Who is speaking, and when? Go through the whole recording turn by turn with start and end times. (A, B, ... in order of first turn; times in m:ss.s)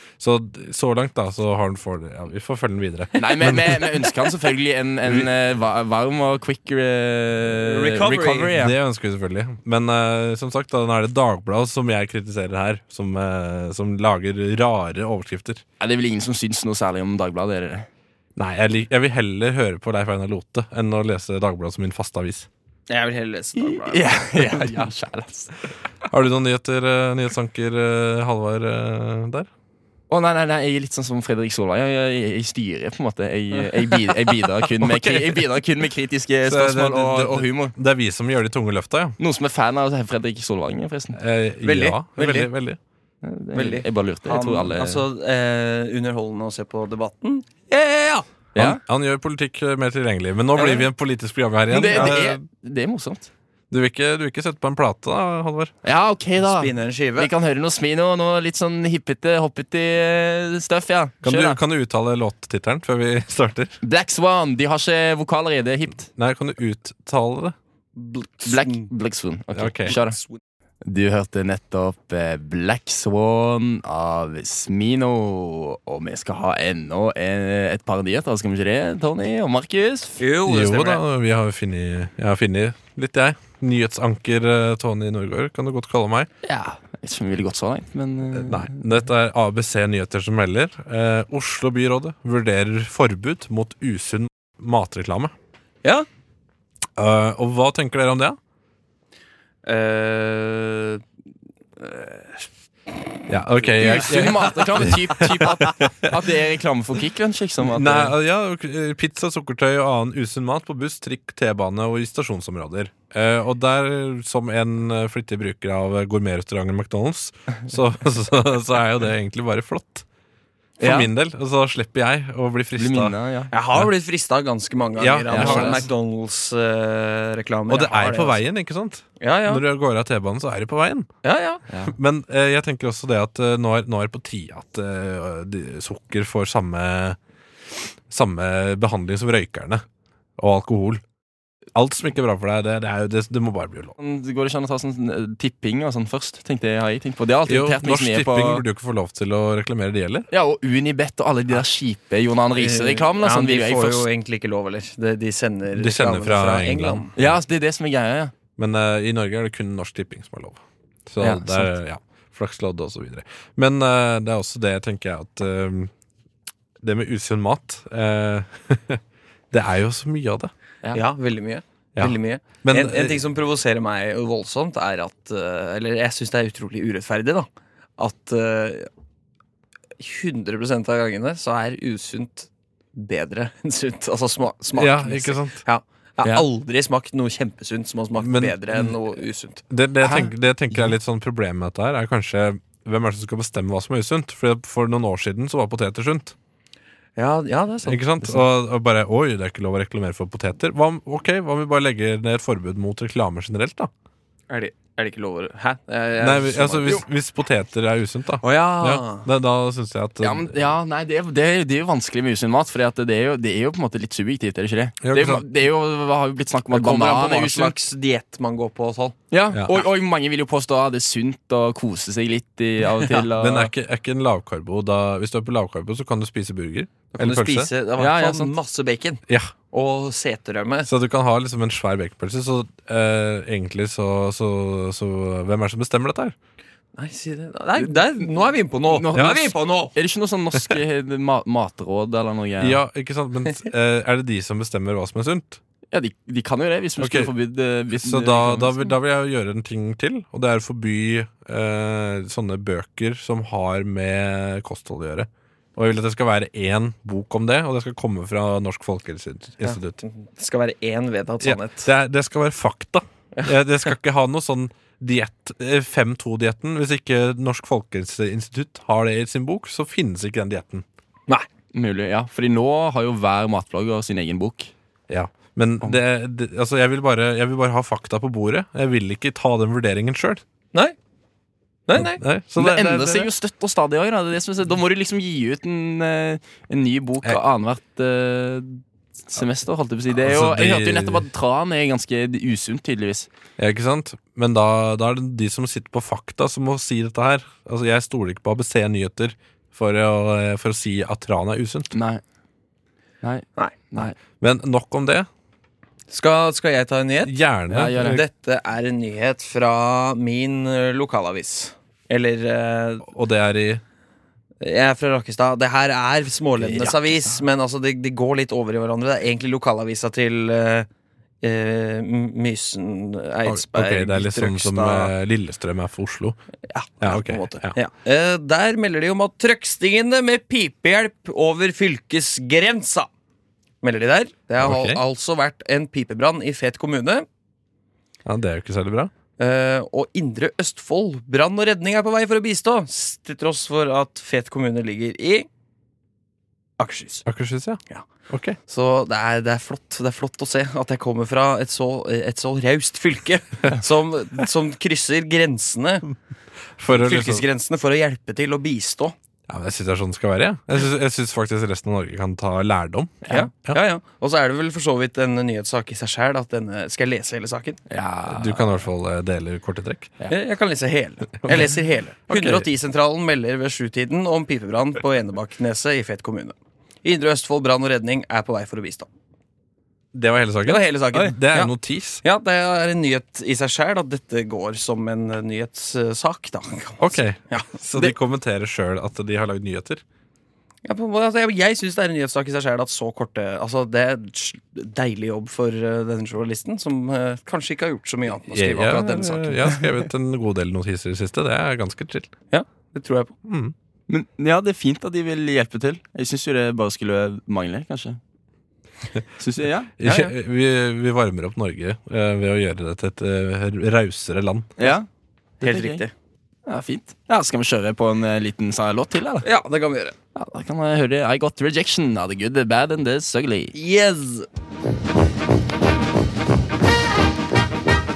0:00.2-0:04.0 A
0:03.2-0:08.7 B
0:07.6-0:08.5 C
0:08.5-0:15.6 A
0:15.8-0:17.9 B
0:18.4-0:22.5 A
0:22.9-0:24.1 C
0:23.6-0:25.5 B
0:26.1-0:29.5 A
0:30.1-0:37.7 B
0:34.8-0:35.4 A
0:36.4-0:39.2 A
0:39.2-0:41.2 B
0:41.1-0:42.8 A
0:41.6-0:42.5 C
0:43.2-0:45.0 B
0:43.5-0:48.2 C
0:48.5-0:48.8 B
0:48.6-0:52.4 A
0:50.6-0:50.8 B
0:51.7-0:53.3 B
0:51.9-0:52.2 C
0:53.7-0:55.7 A
0:55.8-1:01.6 B
0:56.4-0:57.3 C
1:01.2-1:03.8 A
1:03.8-1:06.1 B
1:06.1-1:07.6 A
1:08.0-1:08.9 C
1:08.4-1:10.2 B
1:09.5-1:10.0 A
1:09.9-1:10.4 C
1:10.8-1:20.2 B
1:20.2-1:21.0 C
1:20.4-1:26.3 A
1:26.4-1:28.8 B
1:28.3-1:35.3 A
1:37.0-1:38.4 A
1:39.6-1:41.0 C
1:41.8-1:42.5 C
1:43.3-1:45.9 A
1:43.7-1:44.6 C
1:43.8-1:48.1 B
1:47.6-2:00.0 A
2:00.8-2:01.1 B
2:00.8-2:03.1 A
2:02.8-2:03.5 B
2:03.5-2:08.4 C
2:05.0-2:05.9 A
2:05.3-2:05.8 B
2:07.7-2:11.1 A
2:09.2-2:09.6 C
2:11.2-2:11.6 C
2:11.9-2:17.2 A
2:18.1-2:19.8 A
2:20.4-2:21.0 A
2:21.7-2:24.0 A
2:24.0-2:28.6 B
2:27.5-2:30.3 A
2:30.3-2:34.0 B
2:32.6-2:37.1 C
2:35.8-2:37.4 A
2:37.2-2:38.3 B
2:38.6-2:45.9 A
2:41.2-2:41.7 B
2:46.8-2:50.5 A
2:50.9-2:58.9 C
2:52.0-2:53.2 A
3:00.0-3:09.6 C
3:04.7-3:05.6 A
3:08.2-3:08.9 A
3:09.7-3:16.3 A
3:10.0-3:10.3 B
3:17.2-3:18.4 C
3:17.8-3:23.9 A
3:24.5-3:27.0 C
3:26.2-3:30.7 A
3:28.4-3:29.3 C
3:30.2-3:37.7 B
3:35.0-3:35.4 A
3:36.7-3:39.2 C
3:39.3-3:43.7 B
3:39.5-3:39.8 A
3:43.2-3:47.7 A
3:47.1-3:50.9 C
3:48.0-3:48.5 B
3:49.3-3:49.5 A
3:50.8-3:56.3 A
3:57.0-3:59.9 C
3:57.8-3:58.3 B
3:58.9-4:02.8 B
3:59.1-3:59.5 A
4:02.6-4:05.6 A
4:05.9-4:08.9 B
4:07.0-4:07.3 A
4:07.9-4:20.0 A
4:19.6-4:21.9 C
4:21.4-4:30.8 A
4:31.7-4:34.7 B
4:35.1-4:40.4 A
4:41.9-4:42.2 C
4:42.0-4:43.3 A
4:42.6-4:53.3 B
4:50.1-4:51.3 A
4:53.6-5:01.9 A
5:01.9-5:02.2 B
5:03.2-5:04.1 B
5:04.4-5:05.3 A
5:06.1-5:07.4 C
5:07.2-5:08.2 A
5:07.7-5:08.2 B
5:07.9-5:13.1 C
5:13.0-5:13.8 A
5:14.6-5:20.9 C
5:16.6-5:17.4 B
5:21.4-5:25.1 C
5:23.4-5:26.4 A
5:26.7-5:33.1 C
5:27.0-5:27.7 A
5:33.8-5:37.2 C
5:34.6-5:35.0 A
5:38.2-5:39.1 A
5:39.4-5:45.5 C
5:46.8-5:47.2 C
5:47.2-5:48.6 A
5:48.7-5:56.1 C
5:56.8-5:57.4 A
5:56.9-5:59.1 C
5:59.5-6:03.8 A
6:03.3-6:07.8 C
6:07.9-6:08.8 B
6:08.3-6:10.1 A
6:10.3-6:19.1 C
6:12.3-6:12.7 A
6:20.1-6:22.2 A
6:20.6-6:27.7 C
6:27.0-6:30.0 A
6:30.8-6:39.8 C
6:38.5-6:42.3 A
6:42.5-6:43.3 C
6:43.4-6:43.7 A
6:44.1-6:48.2 B
6:49.4-6:49.9 B
6:50.0-6:54.7 A
6:50.0-6:50.3 C
6:54.8-6:55.0 B
6:55.6-6:56.0 B
6:55.6-6:56.1 C
6:56.6-6:59.4 B
6:59.4-7:00.1 C
7:00.3-7:03.7 B
7:03.7-7:04.5 C